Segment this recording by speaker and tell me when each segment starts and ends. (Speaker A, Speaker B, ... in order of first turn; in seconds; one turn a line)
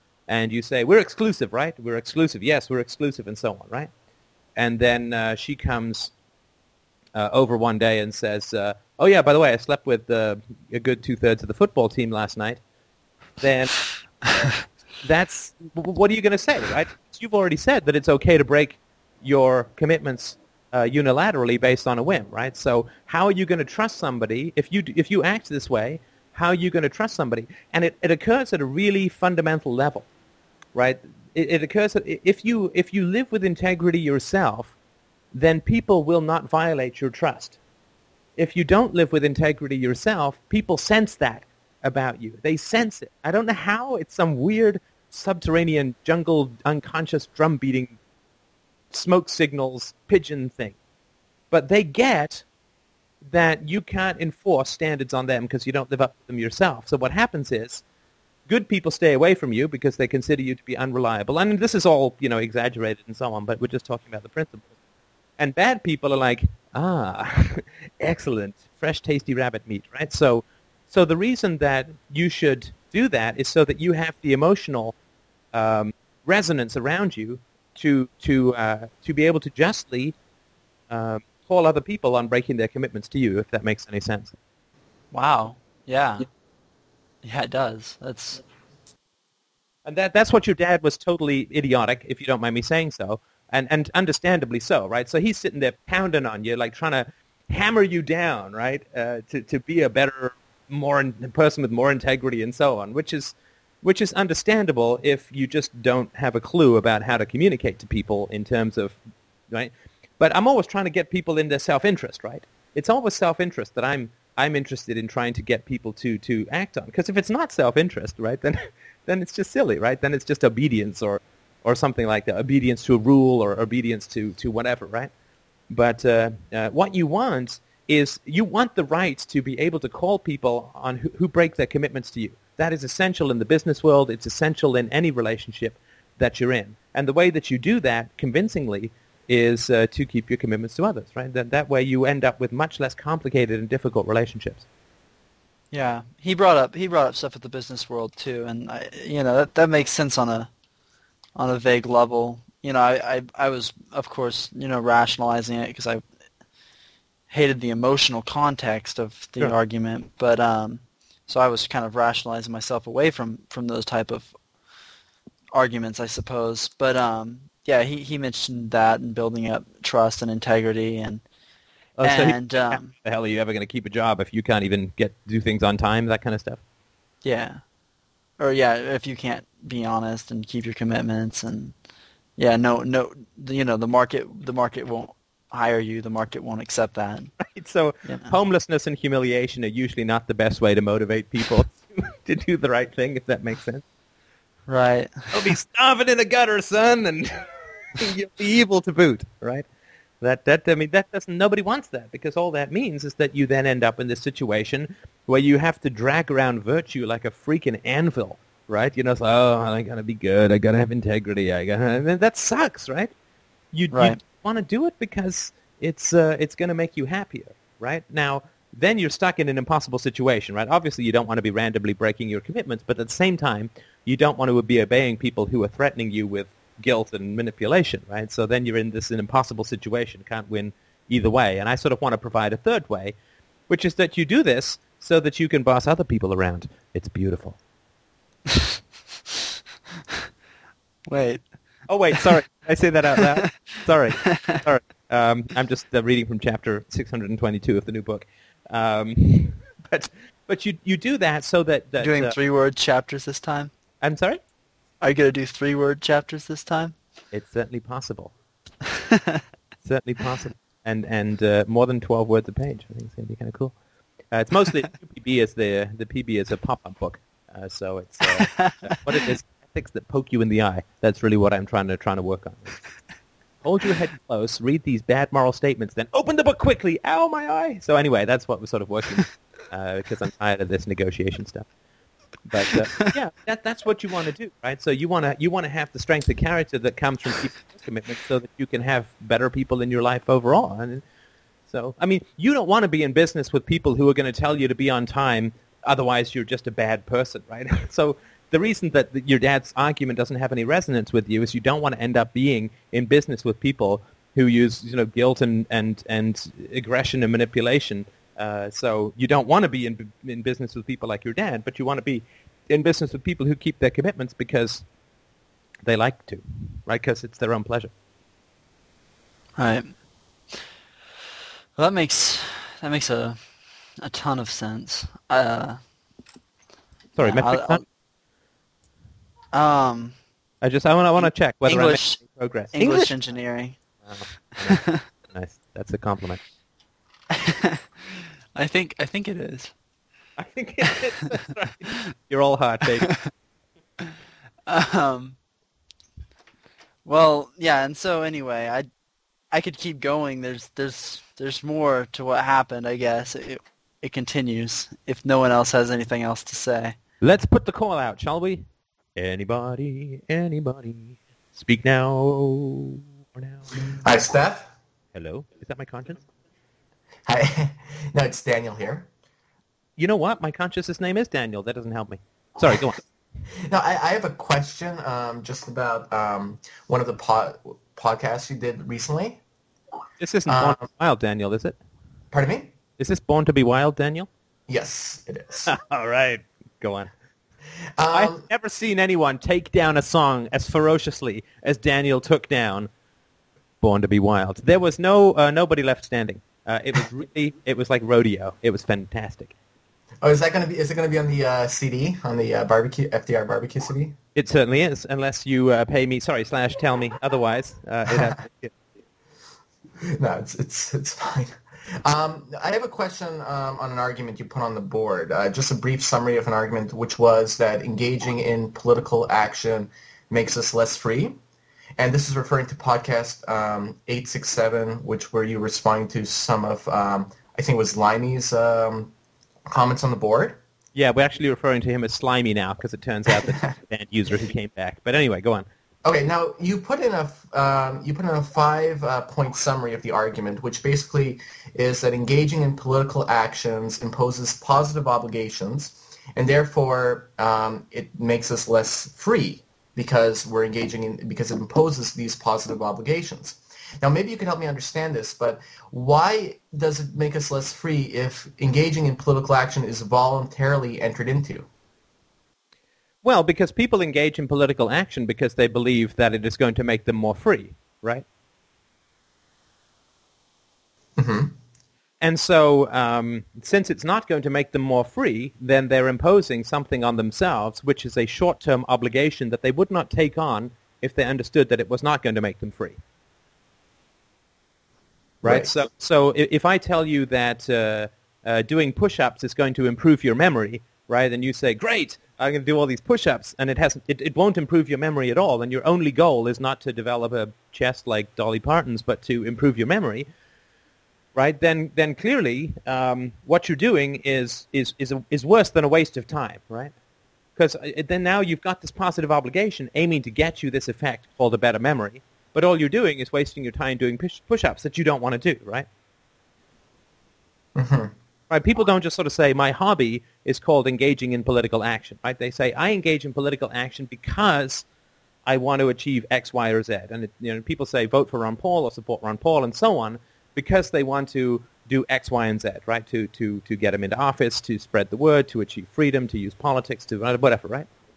Speaker A: 0.3-3.9
Speaker A: 4.6-6.1
Speaker A: 7.1-12.6
Speaker A: 13.4-30.1
Speaker A: 30.7-34.7
Speaker A: 35.3-37.6
Speaker A: 38.4-48.0
Speaker A: 48.9-50.8
Speaker A: 51.5-52.4
Speaker A: 53.2-57.8
Speaker A: 58.5-64.7
Speaker A: 65.4-74.9
Speaker A: 75.5-80.1
Speaker A: 80.9-84.3
Speaker B: 85.1-86.3
Speaker B: 87.2-88.4
Speaker A: 89.8-109.0
Speaker A: 109.5-125.1
Speaker A: 125.7-144.6
Speaker B: 145.7-150.5
Speaker B: 151.3-156.0
Speaker B: 157.3-164.3
Speaker B: 165.5-171.2
Speaker A: 172.0-176.6
Speaker B: 172.0-172.9
Speaker B: 177.2-177.6
Speaker B: 178.4-181.7
Speaker B: 182.4-187.3
Speaker A: 187.4-193.8
Speaker B: 188.0-188.3
Speaker B: 194.7-195.3
Speaker A: 195.3-199.7
Speaker A: 200.2-213.1
Speaker A: 213.7-233.2
Speaker B: 213.9-214.2
Speaker A: 233.7-237.6
Speaker B: 241.1-241.6
Speaker A: 241.9-252.3
Speaker B: 252.0-253.7
Speaker A: 254.0-254.4
Speaker B: 255.0-256.9
Speaker A: 257.3-258.3
Speaker A: 259.8-263.7
Speaker A: 264.3-272.8
Speaker B: 268.4-268.7
Speaker A: 273.6-281.7
Speaker A: 282.4-291.0
Speaker A: 291.7-314.8
Speaker A: 315.8-317.9
Speaker B: 319.6-319.9
Speaker B: 321.8-323.4
Speaker B: 324.0-325.8
Speaker A: 327.1-327.8
Speaker B: 327.2-327.8
Speaker B: 329.5-330.2
Speaker A: 330.6-333.1
Speaker B: 331.2-333.8
Speaker A: 334.0-336.4
Speaker B: 334.7-334.9
Speaker B: 337.4-337.8
Speaker B: 338.5-339.7
Speaker A: 340.4-343.2
Speaker B: 344.7-345.4
Speaker B: 347.0-348.9
Speaker B: 349.5-357.0
Speaker A: 357.2-358.6
Speaker A: 359.1-363.7
Speaker C: 363.7-364.7
Speaker A: 365.1-366.2
Speaker C: 367.2-369.1
Speaker A: 370.0-373.0
Speaker C: 373.6-379.4
Speaker A: 380.2-381.8
Speaker C: 380.5-380.8
Speaker C: 382.3-382.7
Speaker A: 383.0-384.3
Speaker C: 384.7-385.7
Speaker A: 385.6-387.1
Speaker C: 387.9-388.4
Speaker A: 388.1-392.9
Speaker A: 393.8-399.5
Speaker C: 400.2-404.1
Speaker A: 404.3-408.7
Speaker C: 410.1-421.4
Speaker C: 422.0-429.1
Speaker C: 429.7-430.6
Speaker A: 430.9-435.6
Speaker C: 436.0-461.7
Speaker A: 463.2-468.2
Speaker C: 471.2-471.5
Speaker A: 472.2-483.0
Speaker C: 485.4-485.8
Speaker A: 485.4-500.3
Speaker A: 501.3-506.9
Speaker A: 507.6-515.9
Speaker C: 517.8-518.1
Speaker A: 518.5-524.8
Speaker A: 525.5-537.9